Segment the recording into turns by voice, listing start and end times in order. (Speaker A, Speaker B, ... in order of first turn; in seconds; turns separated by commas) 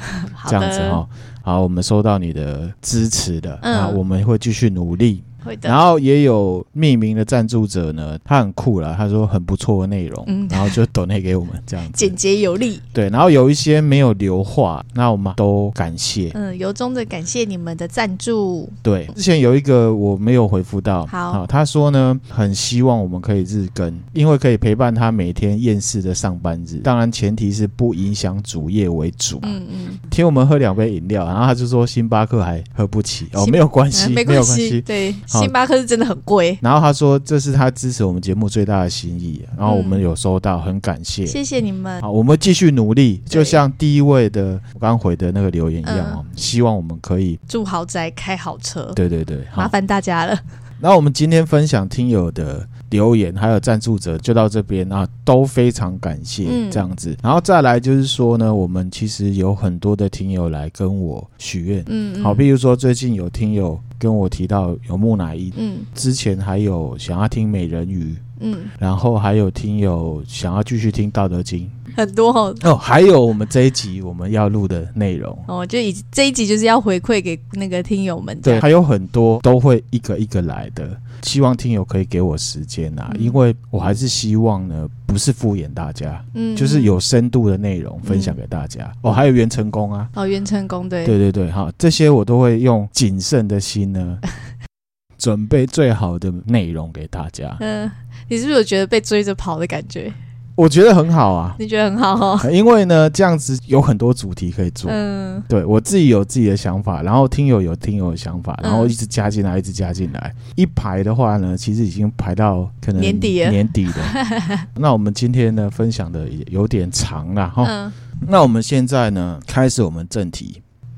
Speaker A: 0.2-1.0, Speaker B: 0.5-12.2, Speaker A: 3.6-4.0, Speaker A: 5.4-5.8, Speaker A: 10.3-10.8, Speaker A: 11.9-12.8, Speaker B: 12.9-16.4, Speaker A: 16.3-18.8, Speaker B: 18.8-29.6, Speaker A: 21.1-21.4, Speaker A: 29.4-30.0, Speaker B: 30.1-35.5, Speaker A: 33.3-36.6, Speaker B: 36.6-41.4, Speaker A: 39.7-40.0, Speaker A: 41.2-42.0, Speaker B: 42.0-47.4, Speaker A: 43.3-43.6, Speaker A: 45.8-46.2, Speaker A: 47.5-49.0, Speaker B: 48.9-49.7, Speaker A: 49.6-50.4, Speaker B: 50.8-68.2, Speaker A: 56.4-56.9, Speaker A: 61.9-62.5, Speaker A: 65.6-65.9, Speaker A: 68.4-68.7, Speaker B: 68.8-71.8, Speaker A: 71.9-72.6, Speaker B: 72.6-75.5, Speaker A: 75.5-78.7, Speaker B: 78.4-90.1, Speaker A: 83.1-83.4, Speaker A: 86.3-87.0, Speaker A: 88.0-88.4, Speaker A: 90.2-91.2, Speaker B: 91.0-94.2, Speaker B: 95.2-97.6, Speaker A: 97.6-100.2, Speaker B: 100.6-101.6, Speaker A: 101.6-102.5, Speaker B: 102.4-114.2, Speaker A: 104.9-105.5, Speaker A: 108.6-109.0, Speaker A: 113.0-114.7, Speaker B: 114.7-120.6, Speaker A: 117.6-117.9